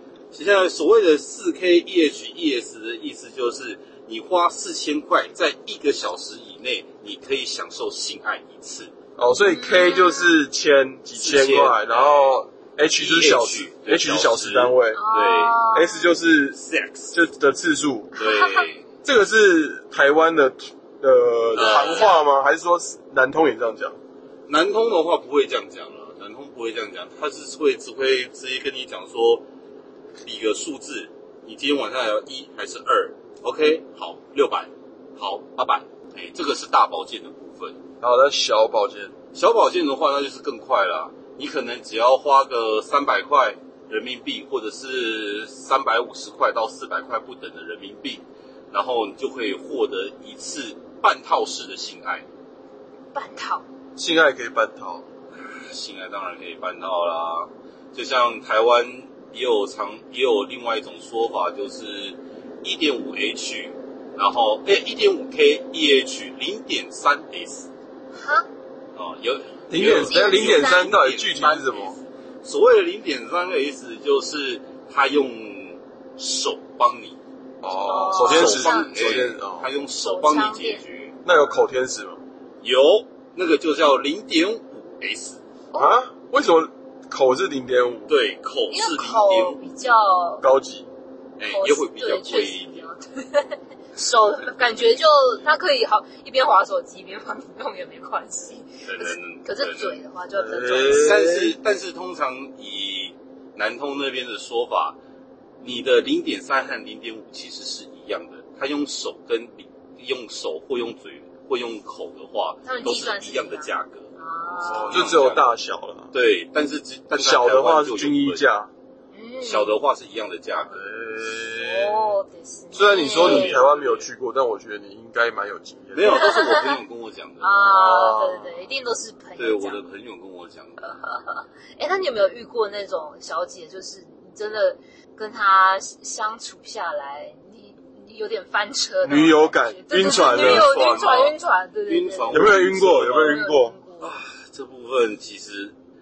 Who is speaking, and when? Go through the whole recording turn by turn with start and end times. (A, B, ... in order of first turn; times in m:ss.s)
0:00.3-0:08.9 A
0:09.2-0:15.0 B
0:09.4-0:10.3 C
0:11.2-0:12.4 A
0:13.0-0:15.6 A
0:14.9-0:16.1 C
0:15.7-0:16.6 B
0:16.6-0:17.1 A
0:17.1-0:18.2 B
0:18.2-0:18.8 A
0:18.3-0:18.6 C
0:19.0-0:24.0 B
0:21.6-0:22.1 A
0:21.7-0:22.1 C
0:24.5-0:29.4 A
0:30.2-0:37.8 A
0:38.0-0:39.2 B
0:39.3-0:52.2 A
0:53.1-0:53.6 C
0:54.0-0:55.0 B
0:55.4-1:07.7 A
1:08.2-1:08.5 C
1:09.0-1:17.2 A
1:09.7-1:12.0 B
1:10.0-1:10.9 C
1:17.6-1:19.7 B
1:17.8-1:19.2 C
1:18.1-1:21.2 A
1:20.0-1:20.8 C
1:21.2-1:22.2 B
1:22.6-1:25.4 A
1:25.8-1:28.1 B
1:28.1-1:29.6 A
1:28.7-1:30.4 C
1:30.4-1:30.9 B
1:31.4-1:32.9 A
1:31.5-1:41.3 C
1:38.9-1:40.0 A
1:40.4-1:41.6 B
1:40.8-1:45.0 A
1:45.6-1:55.5 A
1:52.6-1:55.1 C
1:54.6-1:56.1 B
1:56.1-1:58.4 A
1:57.2-1:58.7 B
1:59.1-1:59.8 C
1:59.4-2:00.8 A
2:00.7-2:02.2 B
2:01.3-2:03.6 C
2:02.7-2:06.3 B
2:02.8-2:04.1 A
2:05.9-2:08.2 A
2:06.1-2:06.8 C
2:07.4-2:09.8 C
2:07.7-2:08.5 B
2:09.4-2:10.9 A
2:10.9-2:24.2 C
2:19.0-2:21.0 B
2:20.0-2:21.3 A
2:21.9-2:23.4 A
2:22.3-2:23.8 B
2:24.0-2:25.7 A